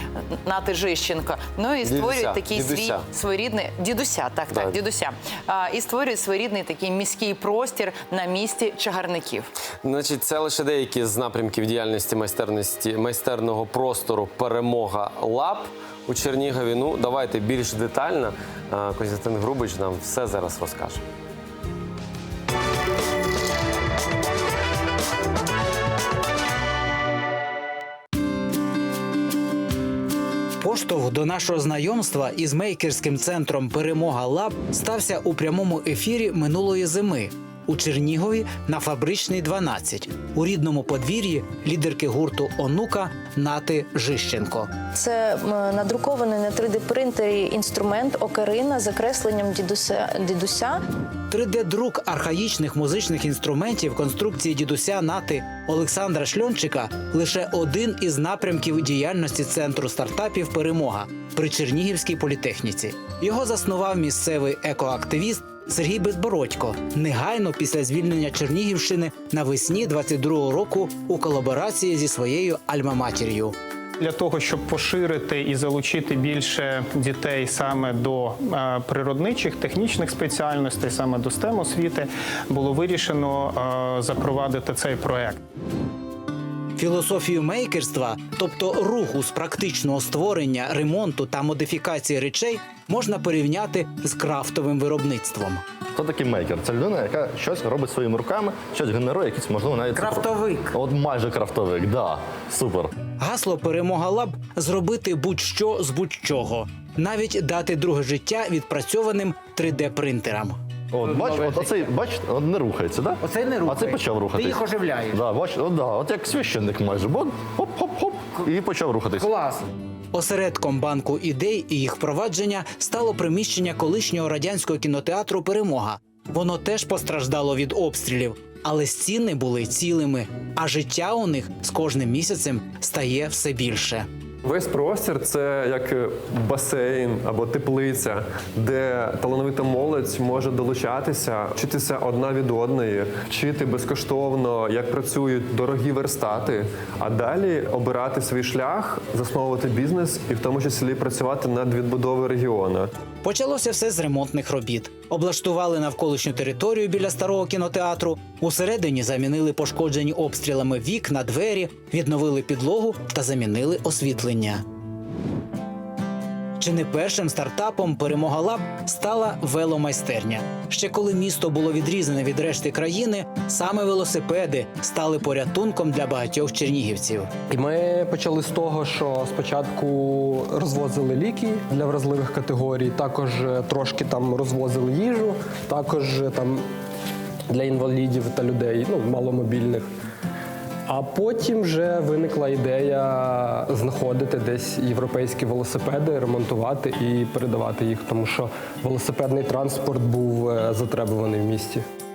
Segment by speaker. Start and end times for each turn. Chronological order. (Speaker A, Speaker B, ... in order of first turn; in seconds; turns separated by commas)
Speaker A: 0.4-9.5, Speaker B: 1.8-3.0, Speaker B: 9.8-21.0, Speaker C: 30.6-44.7, Speaker D: 45.0-50.7, Speaker C: 51.3-73.5, Speaker E: 74.0-85.4, Speaker C: 86.8-95.6, Speaker F: 96.0-102.9, Speaker C: 100.0-100.7, Speaker C: 103.2-110.6, Speaker F: 110.9-119.3, Speaker C: 113.2-115.2, Speaker C: 119.2-119.6, Speaker C: 120.1-134.1, Speaker G: 134.4-152.9, Speaker C: 153.2-164.6, Speaker C: 166.6-177.3, Speaker H: 177.5-186.6, Speaker H: 187.5-189.9, Speaker H: 190.9-201.8